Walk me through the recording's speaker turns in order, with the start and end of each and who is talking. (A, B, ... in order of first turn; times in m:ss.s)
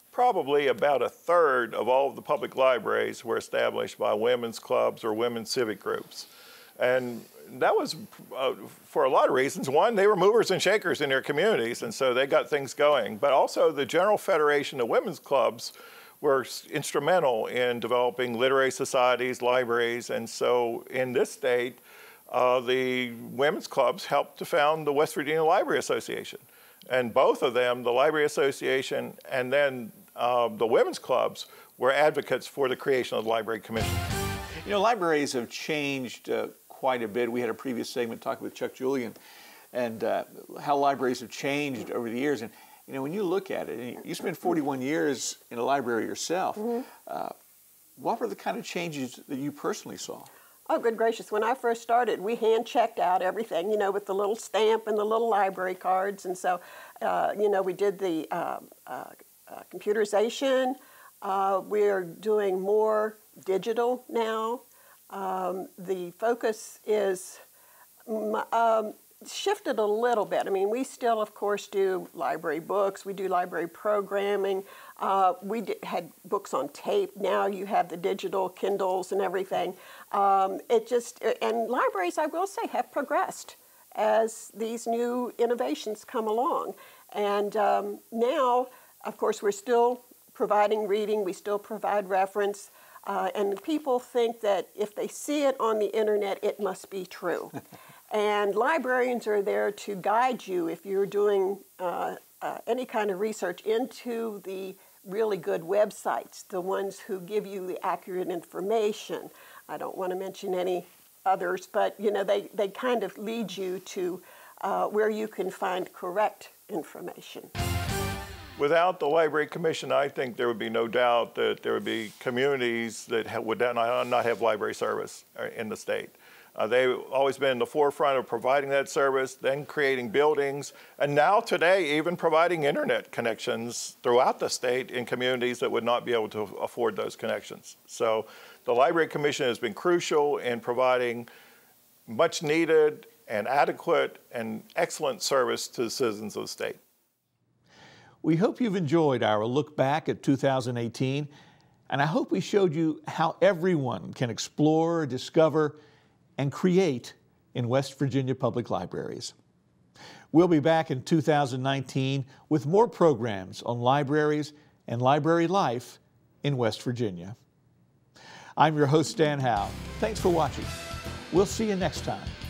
0:00.1-0:34.0 A
0:34.6-0:39.2 B
0:39.7-0:47.3 B
0:46.6-0:46.8 C
0:48.0-0:50.3 B
0:50.7-1:07.4 C
1:08.1-1:37.6 C
1:38.1-1:57.5 C
1:58.6-2:21.3 A
2:22.1-2:26.8 A
2:28.2-2:31.3 B
2:31.9-2:35.8 B
2:36.4-2:39.4 B
2:40.3-2:47.4 B
2:48.6-2:50.7 B
2:51.3-2:52.4 B